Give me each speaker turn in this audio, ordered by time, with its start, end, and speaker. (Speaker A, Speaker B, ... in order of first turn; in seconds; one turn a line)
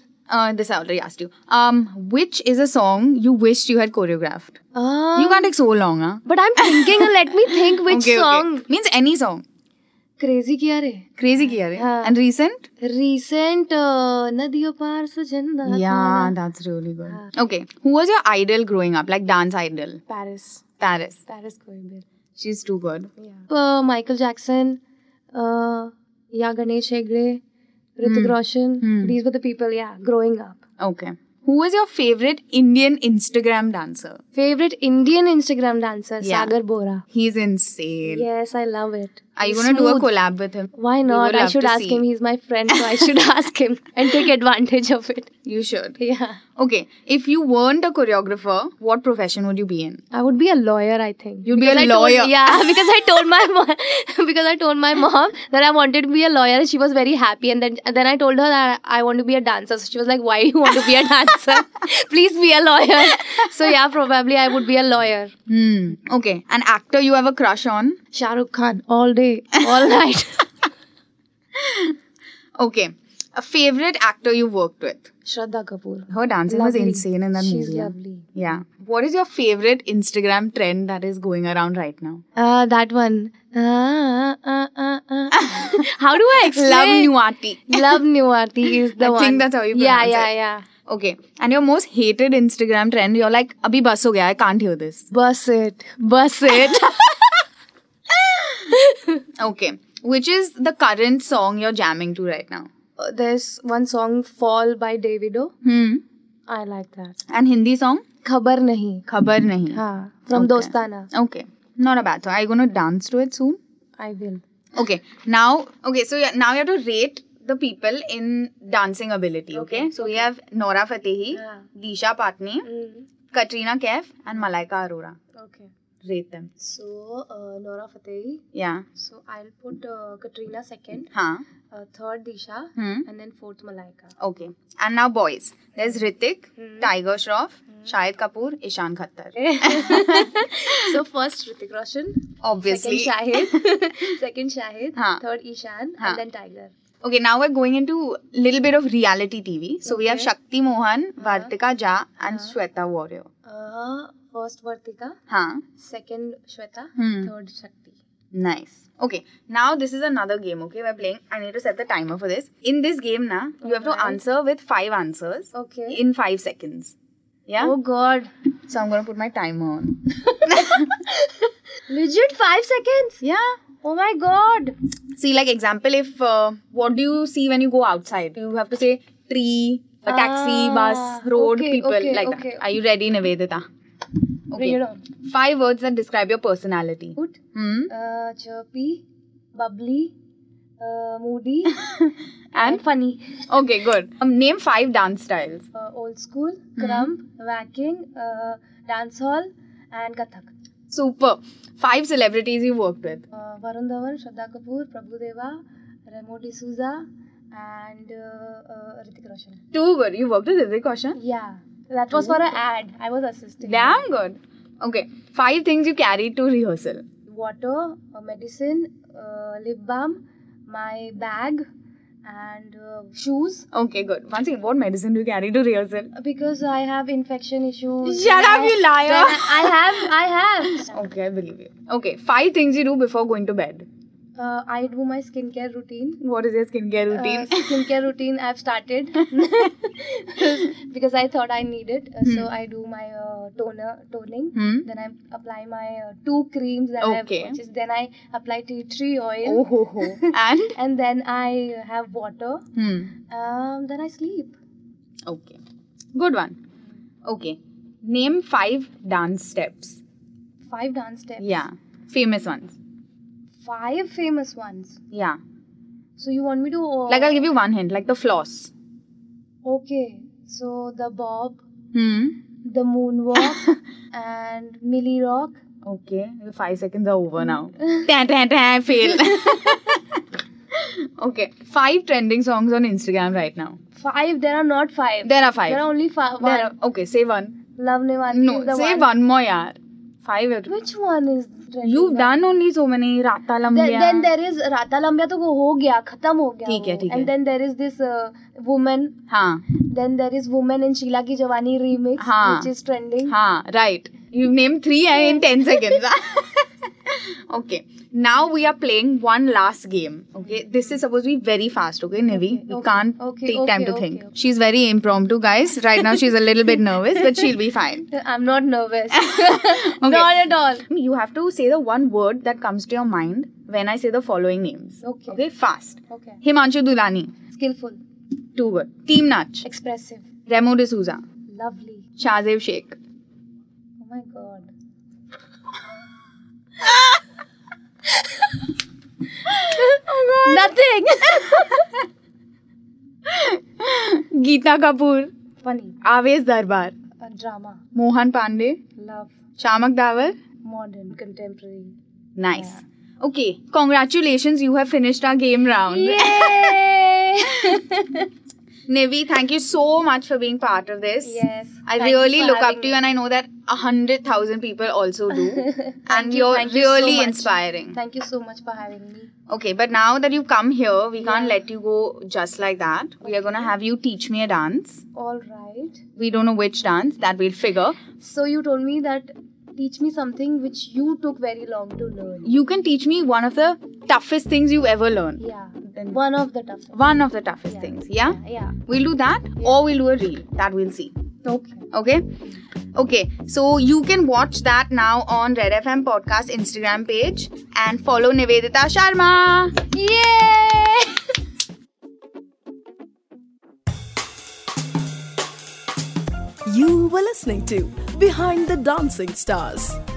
Speaker A: 0.3-4.6
Speaker B: 4.7-5.5
Speaker A: 5.2-9.4
Speaker B: 6.2-8.6
Speaker B: 10.2-12.2
Speaker A: 11.2-12.7
Speaker B: 12.8-16.3
Speaker A: 15.7-20.0
Speaker B: 20.1-20.6
Speaker A: 20.8-21.2
Speaker B: 21.2-22.0
Speaker A: 22.4-23.1
Speaker B: 23.2-24.8
Speaker B: 25.3-27.4
Speaker B: 28.0-30.6
Speaker A: 28.0-29.1
Speaker A: 30.8-34.2
Speaker B: 34.3-37.0
Speaker A: 36.2-36.5
Speaker A: 37.1-38.2
Speaker B: 38.1-40.1
Speaker A: 39.4-42.0
Speaker B: 40.7-45.3
Speaker A: 42.7-43.1
Speaker A: 45.4-46.0
Speaker B: 46.0-46.4
Speaker A: 46.6-50.0
Speaker B: 50.1-65.3
Speaker A: 51.5-52.6
Speaker A: 65.5-68.0
Speaker B: 68.1-70.5
Speaker A: 71.5-71.9
Speaker A: 72.6-75.1
Speaker B: 75.2-78.3
Speaker A: 76.1-82.2
Speaker B: 82.3-87.1
Speaker A: 85.4-88.0
Speaker B: 87.7-90.7
Speaker A: 89.0-90.3
Speaker A: 90.9-95.1
Speaker B: 95.1-97.3
Speaker A: 96.5-96.9
Speaker B: 98.7-99.2
Speaker A: 99.4-102.7
Speaker B: 103.0-105.5
Speaker A: 105.6-106.0
Speaker B: 106.5-107.2
Speaker A: 107.3-108.0
Speaker B: 108.2-109.0
Speaker A: 109.1-113.6
Speaker B: 109.7-111.1
Speaker B: 114.0-114.4
Speaker A: 114.8-122.6
Speaker B: 119.5-120.3
Speaker B: 121.3-121.7
Speaker B: 122.6-123.1
Speaker A: 123.3-125.2
Speaker B: 125.3-125.7
Speaker A: 126.0-126.5
Speaker B: 126.6-128.4
Speaker A: 128.5-128.8
Speaker B: 128.9-131.1
Speaker A: 131.1-131.4
Speaker B: 131.7-134.2
Speaker A: 132.8-133.1
Speaker A: 134.2-140.9
Speaker B: 136.6-136.9
Speaker B: 139.3-146.7
Speaker A: 142.4-143.5
Speaker A: 144.9-145.2
Speaker A: 147.0-153.3
Speaker B: 149.8-150.3
Speaker B: 151.2-151.5
Speaker B: 152.2-152.5
Speaker B: 153.4-155.2
Speaker A: 155.3-155.6
Speaker B: 155.8-158.0
Speaker A: 156.9-157.3
Speaker A: 158.3-166.9
Speaker B: 163.6-164.2
Speaker B: 165.5-166.0
Speaker A: 167.5-167.7
Speaker B: 167.6-168.3
Speaker A: 168.7-170.8
Speaker B: 170.5-173.2
Speaker A: 173.2-173.5
Speaker B: 173.8-174.7
Speaker A: 175.1-183.7
Speaker B: 180.1-182.6
Speaker A: 184.5-187.9
Speaker B: 184.5-185.1
Speaker B: 187.2-189.0
Speaker B: 189.5-190.1
Speaker B: 190.8-191.9
Speaker A: 192.5-192.8
Speaker B: 192.6-193.5
Speaker A: 193.5-195.6
Speaker B: 195.7-200.5
Speaker A: 196.8-197.1
Speaker A: 200.9-203.2
Speaker B: 203.3-209.6
Speaker A: 209.7-211.2
Speaker B: 211.1-214.0
Speaker A: 212.1-212.4
Speaker A: 213.6-217.0
Speaker B: 217.3-221.6
Speaker B: 222.2-223.7
Speaker A: 223.7-226.1
Speaker B: 226.1-231.0
Speaker A: 228.0-230.1
Speaker A: 230.7-233.8
Speaker B: 234.3-236.2
Speaker A: 236.2-237.9
Speaker B: 237.1-252.6
Speaker A: 244.5-244.8
Speaker A: 247.0-247.6
Speaker A: 249.4-250.7
Speaker A: 252.7-253.1
Speaker B: 253.3-254.6
Speaker A: 255.2-255.6
Speaker A: 256.1-256.6
Speaker A: 257.2-260.0
Speaker B: 260.7-261.6
Speaker A: 261.4-262.8
Speaker B: 263.6-265.0
Speaker A: 265.1-265.4
Speaker B: 266.2-267.4
Speaker A: 267.1-268.7
Speaker B: 269.6-271.6
Speaker A: 271.9-272.4
Speaker B: 272.6-275.6
Speaker A: 275.8-280.2
Speaker A: 280.7-283.8
Speaker B: 283.9-286.7
Speaker A: 285.2-285.9
Speaker A: 286.4-287.6
Speaker B: 287.8-289.1
Speaker A: 288.3-290.8
Speaker B: 290.7-292.4
Speaker A: 291.8-294.3
Speaker B: 293.7-299.1
Speaker A: 296.6-297.3
Speaker A: 299.3-299.6
Speaker B: 299.7-303.3
Speaker A: 302.2-302.7
Speaker A: 303.2-318.1
Speaker B: 312.3-314.3
Speaker B: 318.1-320.9
Speaker A: 319.1-327.3
Speaker B: 325.0-325.4
Speaker B: 326.1-326.4
Speaker B: 327.5-328.0
Speaker A: 328.6-329.6
Speaker B: 329.6-330.3
Speaker A: 330.5-331.2
Speaker B: 331.5-332.1
Speaker A: 332.2-332.9
Speaker B: 334.0-334.7
Speaker A: 339.5-340.8
Speaker B: 339.7-341.9
Speaker A: 343.3-345.3
Speaker B: 345.6-346.0
Speaker A: 346.0-346.9
Speaker B: 347.2-347.8
Speaker A: 347.9-348.8
Speaker B: 349.0-349.3
Speaker A: 349.6-350.4
Speaker B: 350.6-351.9
Speaker A: 352.4-356.8
Speaker B: 352.5-352.8
Speaker B: 355.9-358.3
Speaker A: 358.9-368.0
Speaker B: 361.2-363.0
Speaker B: 365.4-369.3
Speaker A: 369.5-375.0
Speaker B: 371.2-371.6
Speaker B: 373.3-373.7
Speaker B: 375.1-376.0
Speaker A: 376.1-378.0
Speaker B: 378.2-382.5
Speaker A: 382.4-385.4
Speaker B: 385.4-387.0
Speaker A: 385.9-386.2
Speaker A: 386.9-391.1
Speaker B: 387.7-388.8
Speaker B: 391.4-391.9
Speaker A: 391.9-392.3
Speaker A: 392.9-399.8
Speaker B: 399.9-401.3
Speaker C: 406.6-410.0